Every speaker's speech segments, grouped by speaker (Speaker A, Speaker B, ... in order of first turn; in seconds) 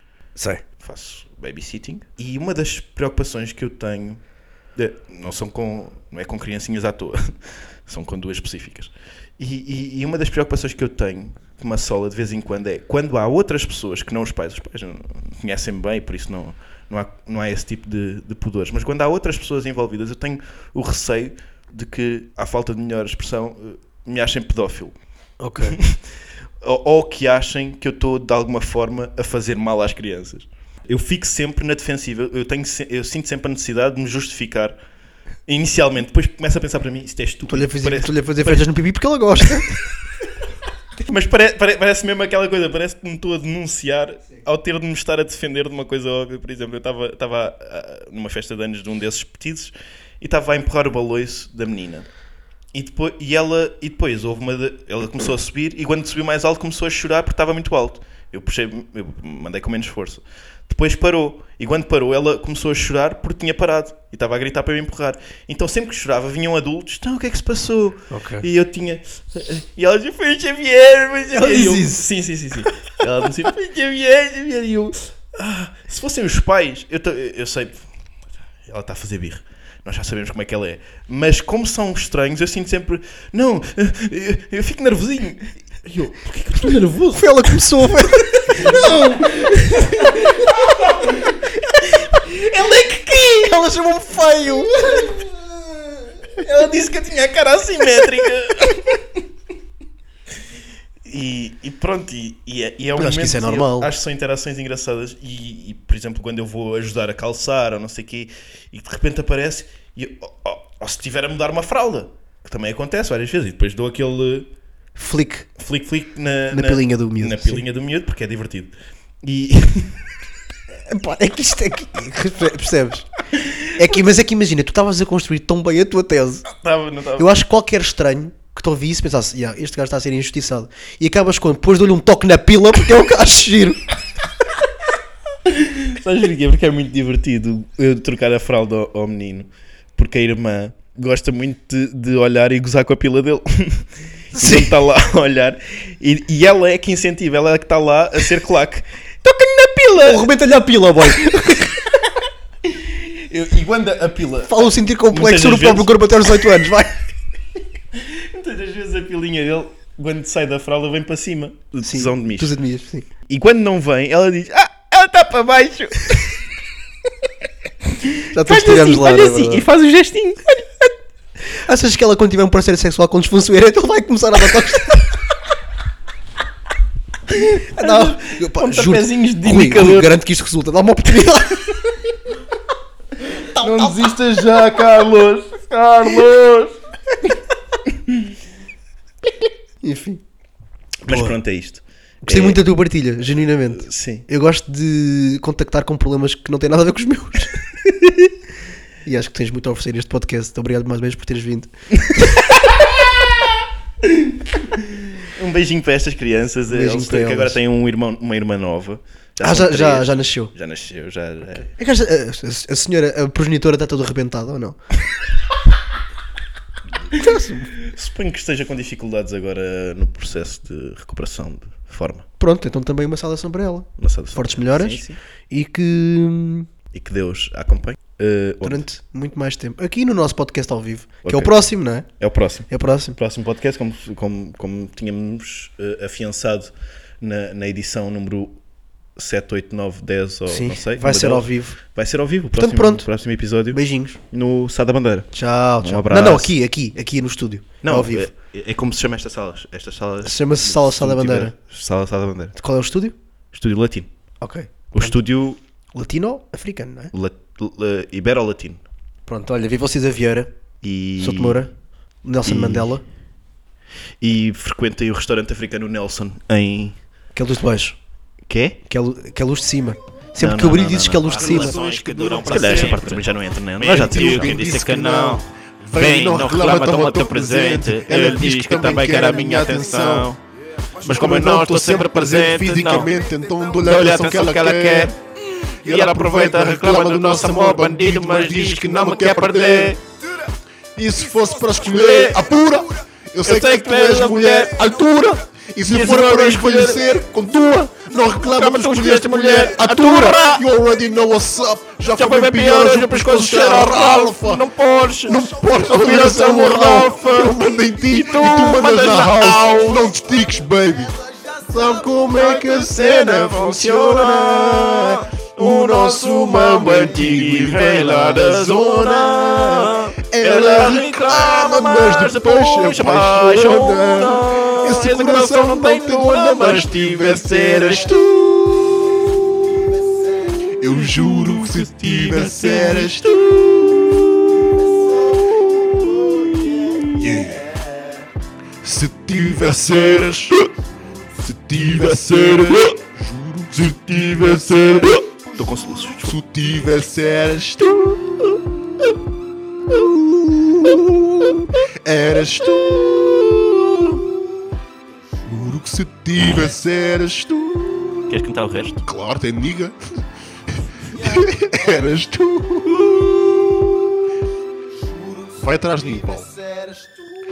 Speaker A: 0.3-0.6, 25.4-25.8, 37.5-39.7, 68.1-68.5, 71.3-72.0, 86.6-89.1, 93.4-95.2, 103.0-103.9, 115.0-115.5, 116.5-117.6, 120.8-123.1, 123.7-126.5, 127.2-133.8, 144.3-144.7, 150.0-151.7, 154.5-157.0, 161.8-163.1, 168.3-169.7, 171.6-175.1, 177.7-181.8, 183.5-184.0, 189.8-190.2, 191.0-191.3, 192.2-197.6, 199.0-202.3, 206.7-207.6, 209.4-210.5, 211.7-214.8, 217.1-217.7, 222.4-226.7, 228.6-232.1, 232.7-233.2, 240.5-241.8, 242.5-243.1, 243.7-244.2, 245.3-248.3, 250.2-251.5, 252.6-253.1, 254.4-255.2, 255.9-257.1, 259.3-260.5, 261.2-261.7, 262.2-263.0, 267.3-268.0, 268.9-271.8
Speaker B: 0.8-4.2, 4.7-24.9, 25.6-34.8, 35.5-38.7, 41.0-52.1, 52.7-77.8, 78.6-91.3, 92.2-93.5, 96.3-99.2, 101.0-114.5, 115.6-120.0, 126.5-127.3, 135.4-150.2, 151.3-151.7, 152.6-156.3, 157.9-162.6, 163.3-166.4, 167.8-170.7, 177.3-180.1, 183.3-186.8, 191.1-192.6, 193.7-194.2, 202.2-203.5, 204.0-211.7, 217.8-222.2, 224.0-225.2, 226.9-228.8, 231.2-238.6, 239.2-246.5, 247.8-252.6, 253.5-254.1, 254.9-255.6, 257.1-258.8, 260.8-261.6, 262.4-262.9, 264.2-267.0, 268.5-268.8, 270.4-271.4, 272.4-275.4, 345.5-346.4, 358.3-359.0
Speaker C: 271.2-275.4, 275.9-280.4, 281.0-283.1, 283.8-285.1, 285.8-290.0, 291.8-292.4, 293.4-294.9, 295.8-297.1, 298.4-300.6, 302.1-310.0, 312.3-328.1, 332.0-332.9
Speaker D: 271.4-273.2, 273.8-280.3, 281.0-285.1, 285.8-290.0, 290.9-304.6, 305.2-311.1, 311.7-329.4, 330.8-334.4, 335.7-337.7, 338.8-340.7, 341.3-345.3, 346.2-348.5, 349.9-354.2, 355.4-358.4, 359.0-359.9, 361.1-363.9, 365.6-366.5